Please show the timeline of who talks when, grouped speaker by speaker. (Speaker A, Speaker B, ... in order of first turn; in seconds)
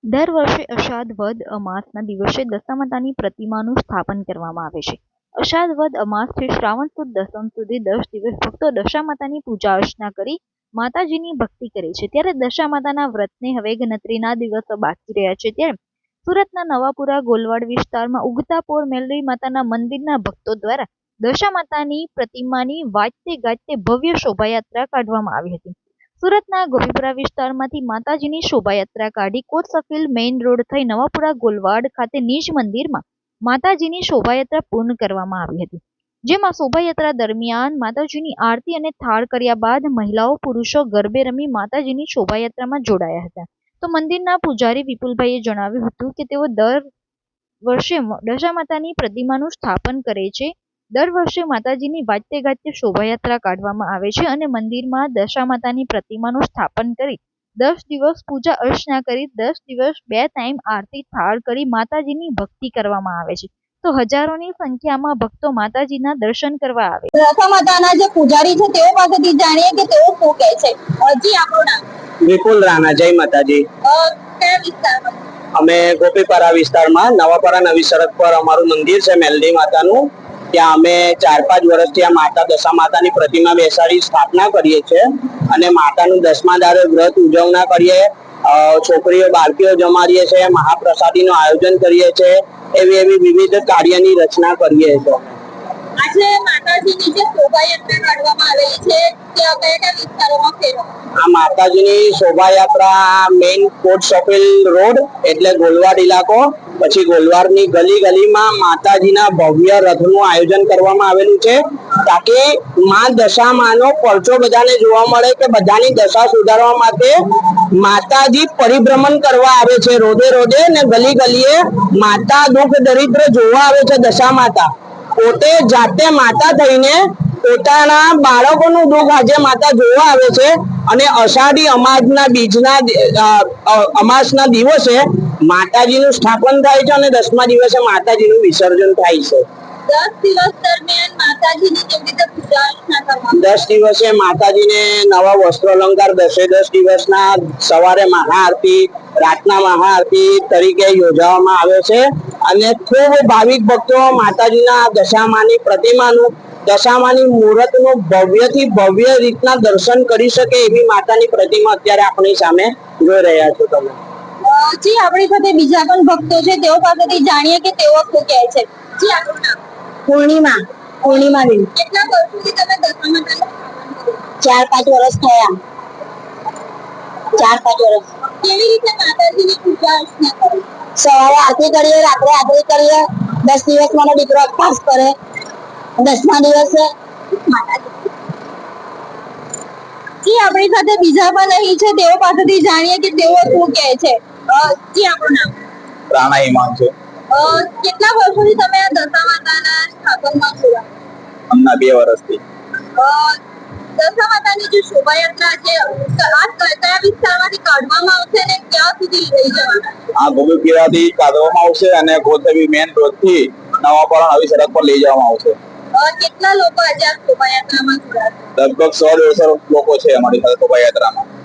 Speaker A: 0.1-15.8, 16.3-46.9, 47.7-67.1
Speaker B: 67.1-71.8, 73.8-75.2, 96.0-100.9, 139.9-143.4, 164.5-169.6, 171.8-174.2, 178.4-180.7, 187.5-187.8, 190.2-195.5, 197.3-200.9, 203.0-203.4, 204.0-210.1, 215.9-218.5
Speaker C: 72.2-73.7, 75.6-95.3, 101.2-117.2, 117.8-139.4, 143.3-164.0
Speaker D: 170.1-171.7, 174.4-175.6, 177.4-178.1, 181.0-185.2, 186.0-186.9
Speaker E: 196.1-196.9, 201.5-202.4, 210.2-215.6, 218.6-221.3